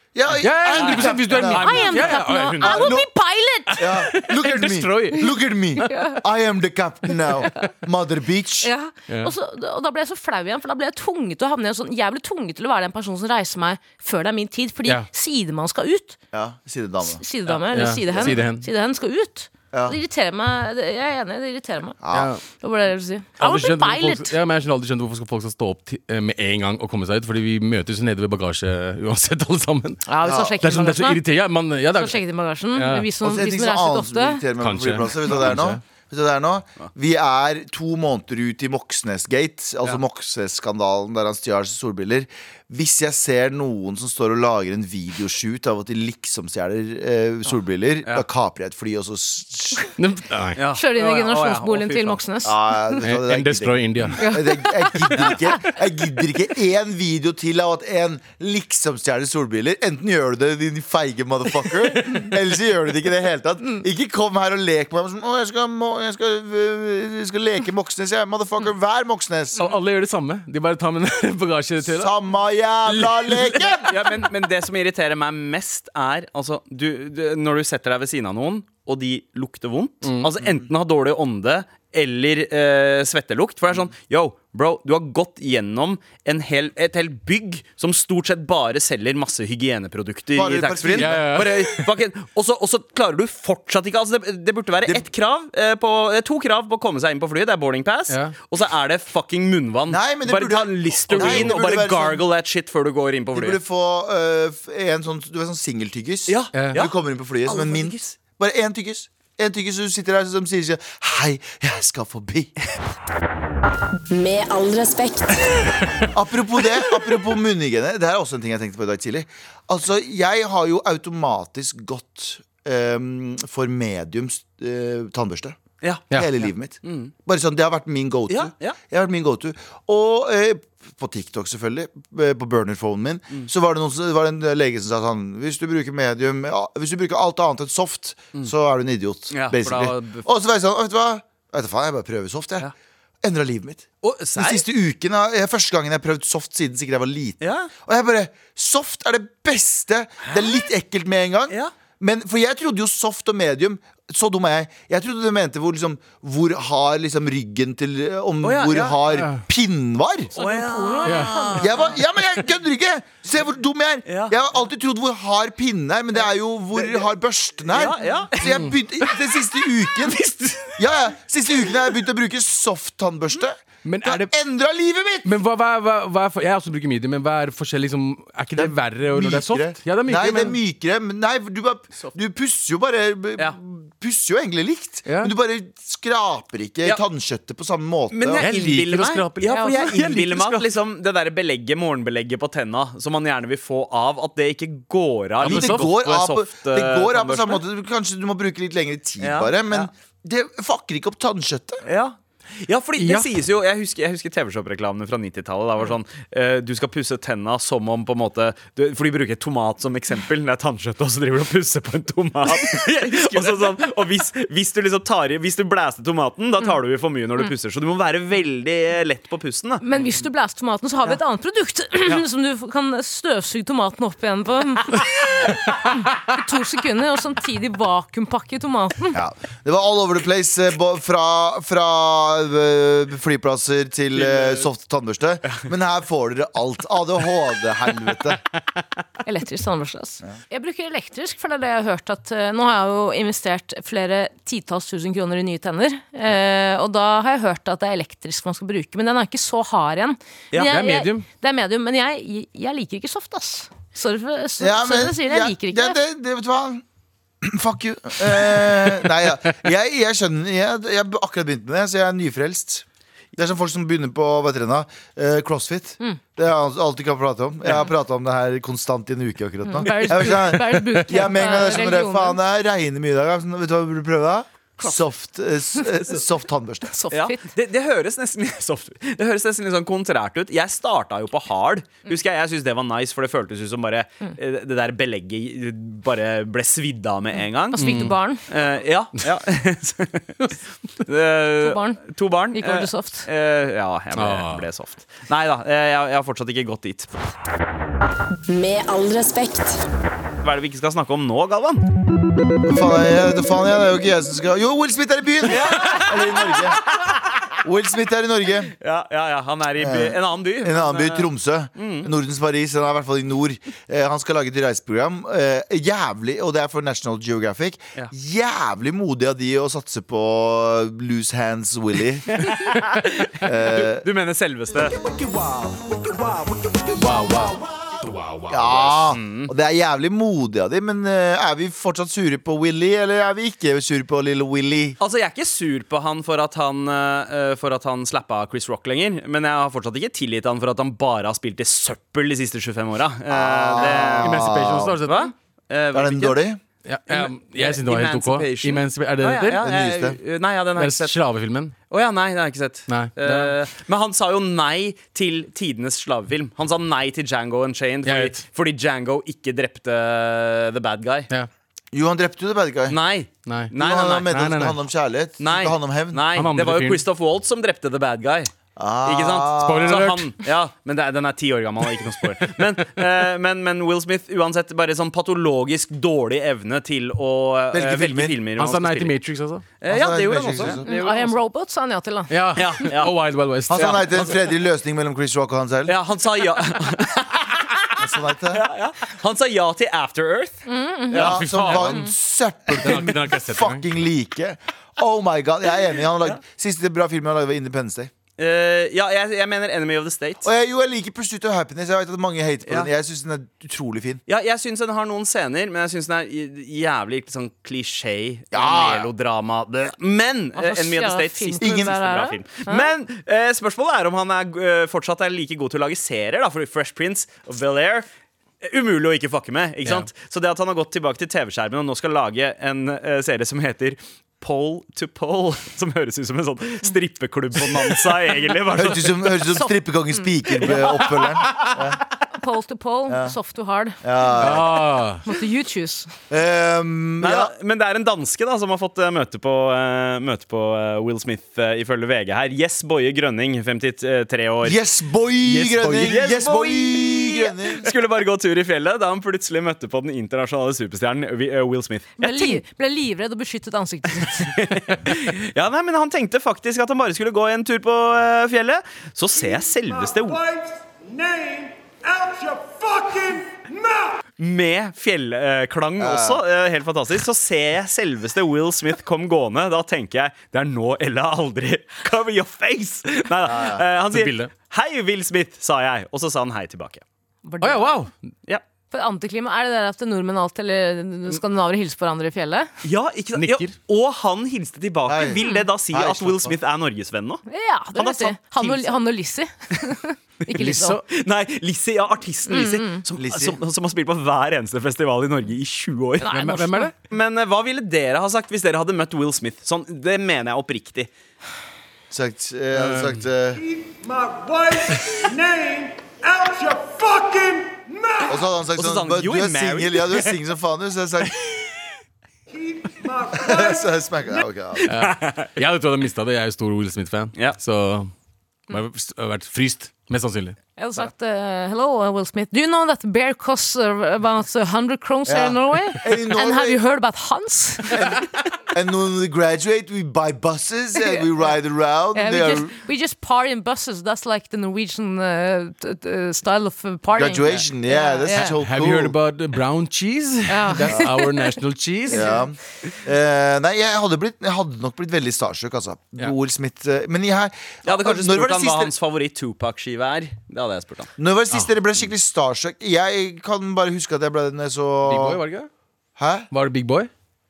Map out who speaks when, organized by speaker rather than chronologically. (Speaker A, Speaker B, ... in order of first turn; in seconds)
Speaker A: 0.1-1.6, 2.6-3.1, 3.8-8.7, 16.3-17.2, 18.1-18.4, 19.7-20.0, 22.0-22.3, 30.2-30.5, 33.2-49.9, 52.4-69.7, 71.8-74.0, 90.3-91.1, 99.9-102.2, 103.3-112.5, 116.1-125.6, 126.1-142.7, 143.2-160.3, 161.6-170.2, 170.8-175.3, 178.6-188.5, 195.4-201.8, 229.1-238.4, 254.6-256.8, 257.4-262.8, 263.4-276.9, 302.6-306.8, 307.6-308.7, 309.8-322.4, 323.4-324.1, 328.5-335.0, 343.3-345.0, 345.9-346.6, 349.6-350.2, 361.9-363.0, 363.8-366.2, 368.8-370.0, 377.7-378.4, 379.9-380.8, 383.7-386.0, 388.0-388.6, 391.1-398.1, 400.4-404.2, 408.5-409.1, 411.6-412.0, 428.7-432.0, 433.1-433.4, 434.0-434.9, 436.3-437.5, 444.6-447.9, 466.0-466.4, 473.4-473.8, 485.1-486.5, 493.1-493.6, 502.1-503.6, 508.2-511.4, 513.3-514.9, 525.2-526.8, 527.9-532.8, 537.1-539.1, 542.1-548.9, 551.2-555.4, 556.2-556.5
Speaker B: 0.4-2.8, 3.8-5.3, 17.7-18.7, 22.1-22.4, 23.4-30.0, 30.6-32.2, 32.7-33.1, 34.6-35.8, 50.0-50.6, 53.0-54.3, 69.6-72.1, 80.0-80.3, 91.0-91.9, 98.1-98.3, 101.1-101.5, 106.5-106.8, 159.1-159.4, 161.0-161.6, 173.8-174.3, 175.2-180.6, 185.1-185.3, 188.4-190.7, 195.4-195.9, 203.0-203.3, 234.3-234.6, 250.6-251.2, 287.8-288.1, 294.1-294.6, 326.9-327.5, 344.2-345.3, 346.8-349.6, 350.8-351.7, 352.9-353.5, 358.0-358.4, 363.4-363.7, 364.2-364.8, 366.3-367.0, 369.6-370.4, 378.6-379.7, 382.3-384.2, 391.2-392.1, 392.8-393.8, 434.4-435.2, 445.6-446.2, 474.1-474.5, 477.6-478.1, 483.3-483.7, 490.6-491.0, 496.3-496.9, 502.8-503.2, 514.9-518.1, 518.7-520.5, 538.3-542.3, 555.0-555.7, 556.5-557.1
Speaker C: 0.7-2.9, 50.6-52.2, 73.8-103.6, 106.3-106.9, 107.5-108.1, 126.8-127.1, 128.3-128.8, 139.3-140.2, 144.0-144.6, 147.4-147.7, 158.4-159.0, 160.3-161.7, 164.1-164.3, 166.8-167.0, 167.7-168.5, 188.1-197.6, 199.2-199.9, 201.8-219.8, 277.1-287.8, 288.5-290.4, 291.0-297.1, 300.4-301.9, 305.4-307.1, 308.8-312.1, 322.4-325.0, 329.1-329.5, 335.0-344.4, 345.0-346.4, 347.1-351.1, 351.9-361.3, 362.9-364.3, 365.4-368.5, 369.0-379.1, 379.8-381.3, 382.6-383.1, 383.7-384.2, 385.9-391.8, 398.4-400.5, 404.3-418.1, 418.6-429.5, 437.2-444.8, 445.6-452.6, 454.4-460.4, 464.4-477.0, 482.8-487.4, 487.9-488.9, 490.6-496.5, 497.1-501.1, 508.8-510.4, 514.9-515.5, 547.8-551.1
Speaker D: 1.4-4.0, 5.8-6.2, 8.6-16.2, 17.2-24.3, 30.1-31.2, 31.9-34.4, 50.7-52.9, 54.2-55.3, 160.4-161.9, 219.8-229.2, 239.2-256.0, 269.6-272.4, 276.9-277.5, 287.7-288.4, 291.6-292.0, 292.5-293.3, 380.8-382.7, 390.6-391.2, 410.6-412.9, 429.6-430.3, 432.3-434.0, 435.2-436.1, 452.2-454.6, 477.4-478.0, 478.9-482.7, 487.5-491.0, 492.5-493.0, 496.2-496.9, 520.8-528.1, 532.1-538.5, 540.5-541.5, 542.1-542.4
Speaker E: 114.1-115.8, 298.5-299.8
Speaker F: 325.0-328.5, 461.2-461.7, 504.1-507.8